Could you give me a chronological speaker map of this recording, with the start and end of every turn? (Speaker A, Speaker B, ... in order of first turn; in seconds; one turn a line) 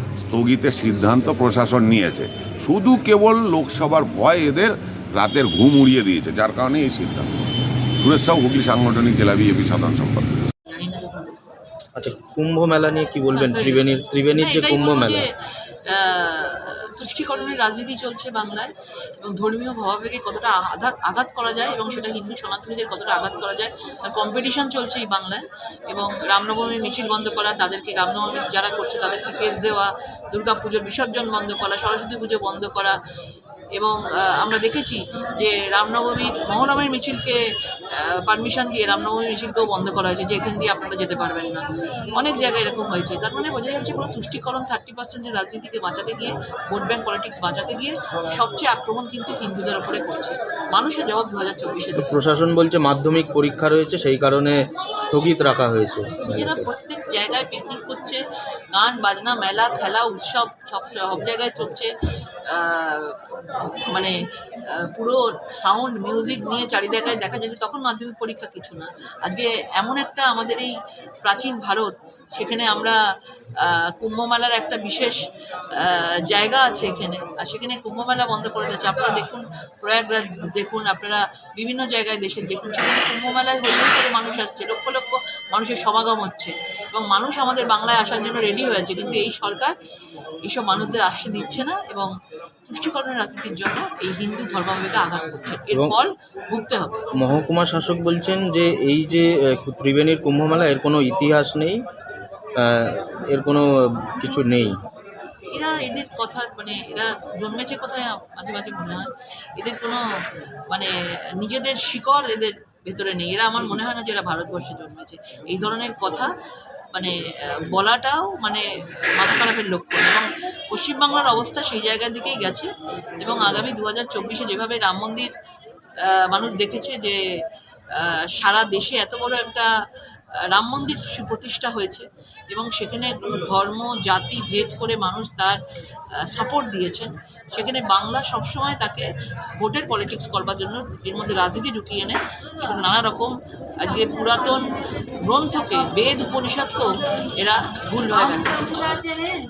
Speaker A: 0.2-7.3
Speaker A: 8.0-10.3
Speaker B: 10.7-11.4
Speaker C: 12.0-15.2
Speaker B: 13.3-15.2
Speaker B: 15.8-33.0
Speaker B: 33.7-37.4
Speaker B: 37.9-52.2
Speaker C: 52.0-56.7
Speaker B: 56.3-58.2
Speaker B: 58.7-61.9
Speaker B: 62.5-64.1
Speaker B: 64.7-70.7
Speaker B: 71.2-73.0
Speaker B: 73.6-75.2
Speaker B: 75.8-89.7
Speaker B: 90.4-92.1
Speaker B: 92.7-97.0
Speaker C: 95.7-96.0
Speaker C: 97.2-101.8
Speaker C: 102.6-104.7
Speaker B: 105.5-110.0
Speaker B: 110.7-116.3
Speaker B: 116.9-125.3
Speaker B: 126.0-127.2
Speaker B: 127.9-129.7
Speaker B: 130.5-135.6
Speaker B: 136.2-139.0
Speaker B: 139.6-149.1